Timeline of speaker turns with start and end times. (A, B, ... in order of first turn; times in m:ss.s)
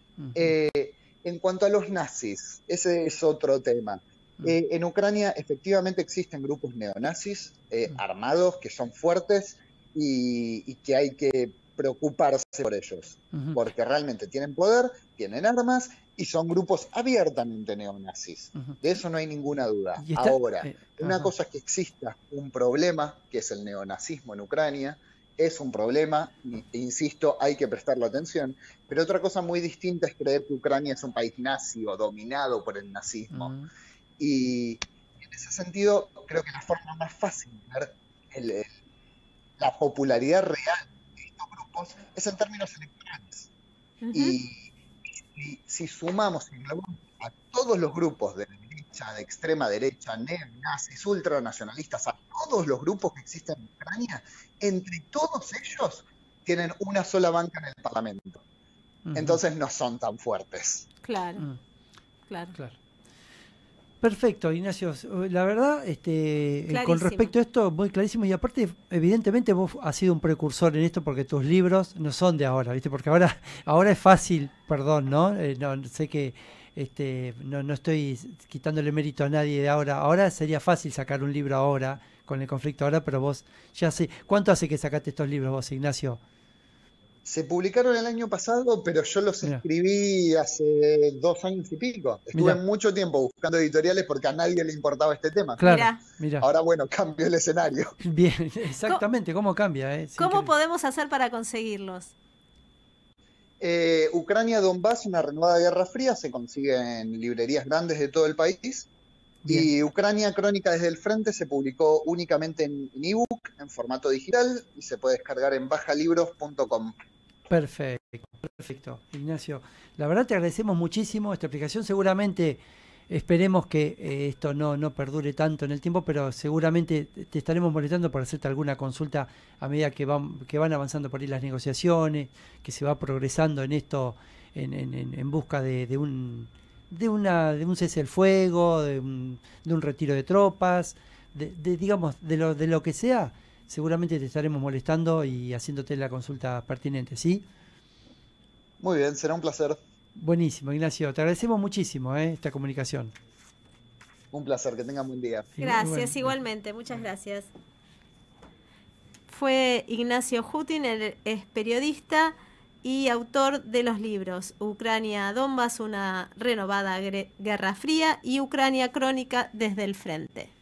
0:00.2-0:00.5 A
0:00.3-0:33.5 B
0:13.3-0:13.6 A
0:20.0-0:21.3 A
0:33.3-0:33.7 A
0:34.2-0:38.8 B
0:39.6-0:43.5 B
0:44.0-0:44.4 C
0:44.1-0:58.4 B
0:59.0-0:59.4 A
0:59.1-1:00.9 B
1:01.0-1:01.4 C
1:02.3-1:02.5 C
1:04.0-1:26.2 A
1:06.7-1:07.3 C
1:27.2-1:35.6 B
1:32.3-1:32.6 A
1:35.6-1:36.4 A
1:35.6-1:36.0 C
1:36.4-1:37.9 B
1:38.0-1:40.5 A
1:40.2-1:42.1 C
1:43.6-1:48.9 B
1:49.4-1:56.9 B
1:57.5-2:27.4 A
2:28.8-2:29.8 B
2:30.2-2:33.1 A
2:34.3-2:35.5 B
2:35.6-2:36.3 A
2:35.6-2:37.5 C
2:39.3-2:50.5 C